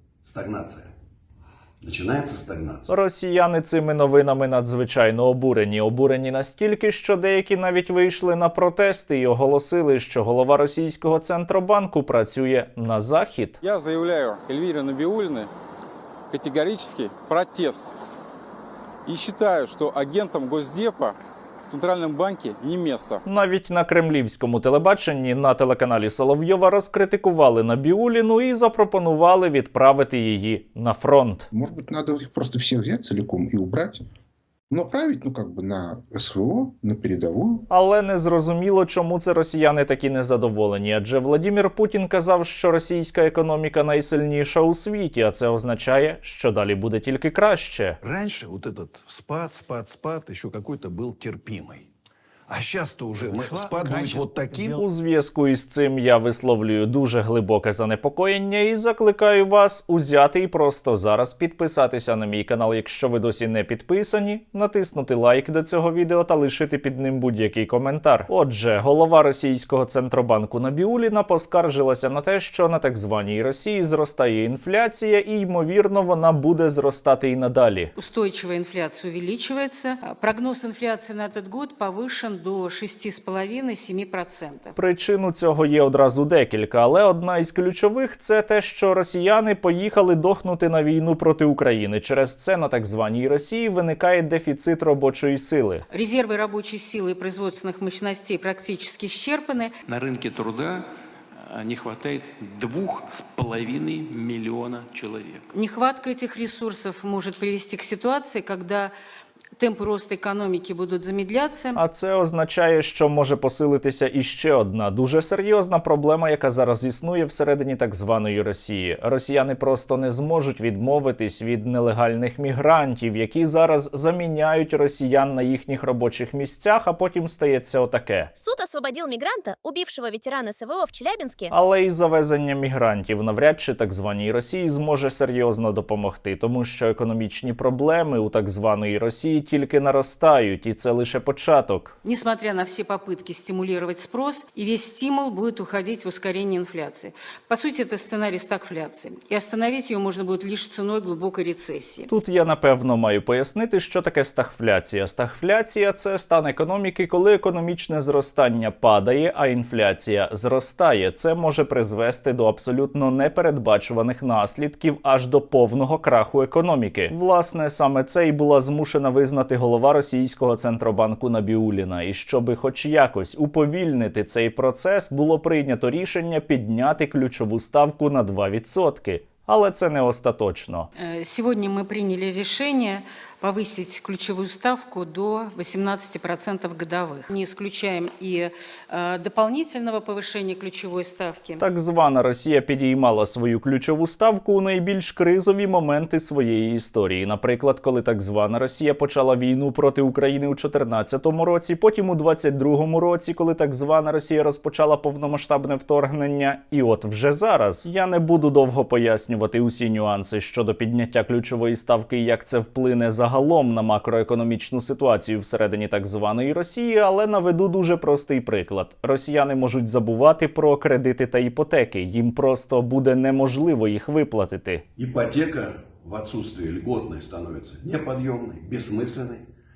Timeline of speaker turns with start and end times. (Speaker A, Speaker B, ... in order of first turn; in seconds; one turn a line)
Speaker A: 0.2-0.9
Speaker A: 1.8-2.9
Speaker B: 2.9-13.6
Speaker C: 13.6-15.5
Speaker C: 16.3-17.9
Speaker C: 19.1-21.2
Speaker C: 21.7-23.2
Speaker B: 23.3-31.5
Speaker D: 31.5-34.0
Speaker D: 34.7-37.7
Speaker B: 37.7-48.0
Speaker E: 48.0-51.9
Speaker E: 52.5-54.8
Speaker A: 53.2-54.3
Speaker B: 54.6-77.9
Speaker F: 78.0-84.8
Speaker B: 84.8-95.8
Speaker F: 95.9-99.7
Speaker G: 99.9-100.9
Speaker G: 101.5-105.4
Speaker F: 105.5-108.9
Speaker F: 109.6-111.8
Speaker B: 111.8-128.3
Speaker H: 128.4-131.5
Speaker B: 131.5-141.9
Speaker F: 142.0-152.1
Speaker B: 152.1-180.9
Speaker F: 181.0-191.6
Speaker B: 191.6-224.8
Speaker A: 225.0-229.4